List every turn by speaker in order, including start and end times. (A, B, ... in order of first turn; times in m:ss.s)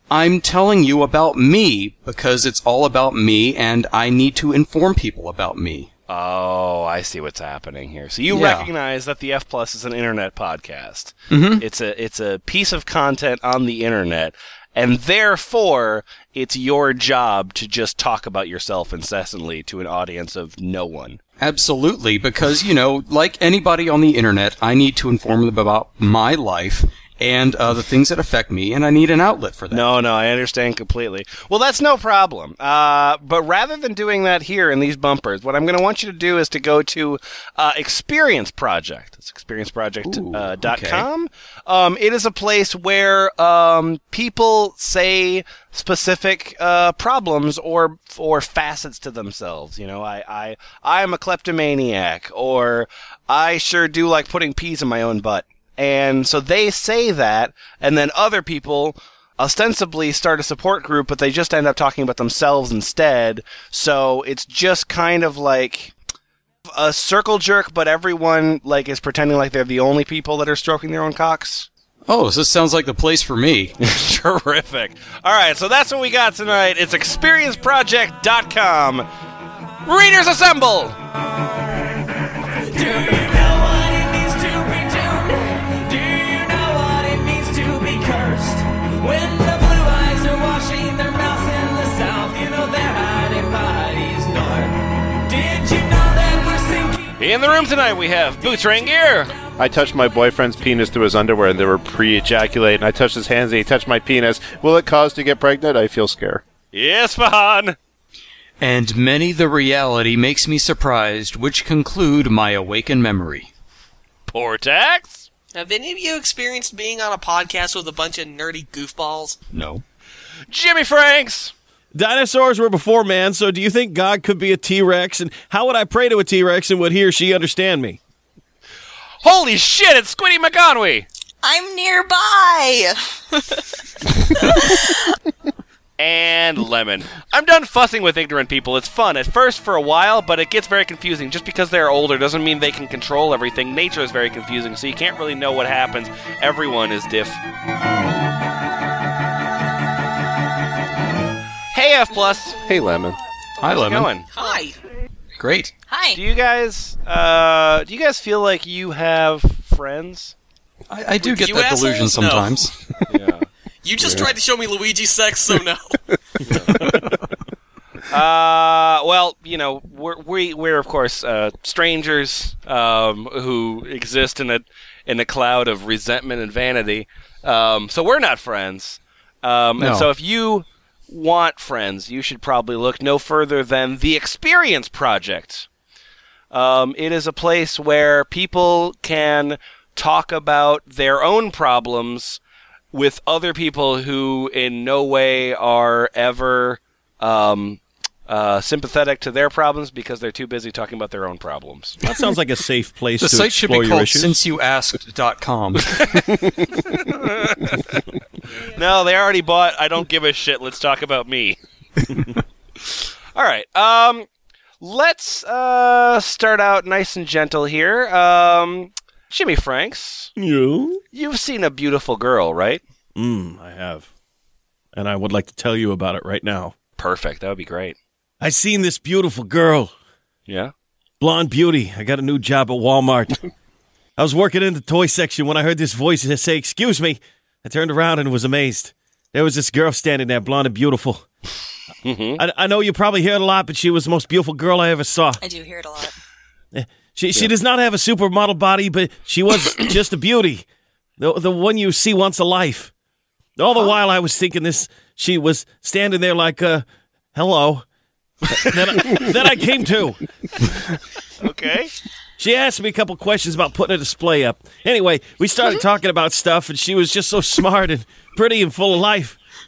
0:00.1-0:05.9 A
0:06.1-0:21.2 B
0:08.3-0:08.7 A
0:11.3-0:11.6 A
0:21.4-0:29.9 A
0:29.7-1:05.9 B
0:40.1-0:41.0 A
1:06.7-1:11.7 B
1:12.0-1:13.7 A
1:13.8-1:19.0 B
1:19.8-1:21.0 B
1:22.7-1:37.1 C
1:37.2-1:39.3 B
1:39.6-1:46.4 D
1:46.7-1:47.8 B
1:48.6-1:53.5 A
1:54.3-1:55.3 B
1:55.5-1:59.4 E
1:59.5-1:59.8 A
2:00.5-2:01.5 B
2:01.9-2:08.0 F
2:09.2-2:11.1 B
2:11.4-2:15.2 G
2:16.0-2:27.4 B
2:31.7-2:32.6 B
2:32.6-2:33.2 D
2:33.6-2:34.1 A
2:33.7-2:34.3 B
2:34.3-2:34.8 E
2:35.4-2:35.7 A
2:35.9-2:36.2 G
2:36.1-2:40.3 B
2:40.9-2:42.7 A
2:41.2-2:42.7 E
2:43.1-2:43.5 B
2:43.8-2:46.0 E
2:46.4-2:47.0 B
2:48.1-3:05.7 B
2:59.8-3:00.1 A
3:06.5-3:12.4 B
3:12.9-3:22.0 B
3:22.0-3:24.4 F
3:23.2-3:26.1 A
3:26.9-3:28.0 B
3:28.6-3:31.6 B
3:33.3-3:34.3 B
3:34.8-3:40.3 B
3:40.4-3:41.0 F
3:41.1-3:42.8 B
3:43.2-3:44.1 F
3:44.9-3:46.7 F
3:47.0-3:48.0 B
3:48.4-3:49.9 F
3:50.5-3:50.7 B
3:51.2-3:53.4 F
3:54.2-4:01.2 F
4:02.0-4:02.4 B
4:02.4-4:05.4 F
4:05.4-4:06.2 G
4:06.7-4:10.6 F
4:11.2-4:12.9 F
4:13.6-4:17.8 F
4:18.5-4:20.2 F
4:21.4-4:21.9 B
4:22.4-4:29.4 F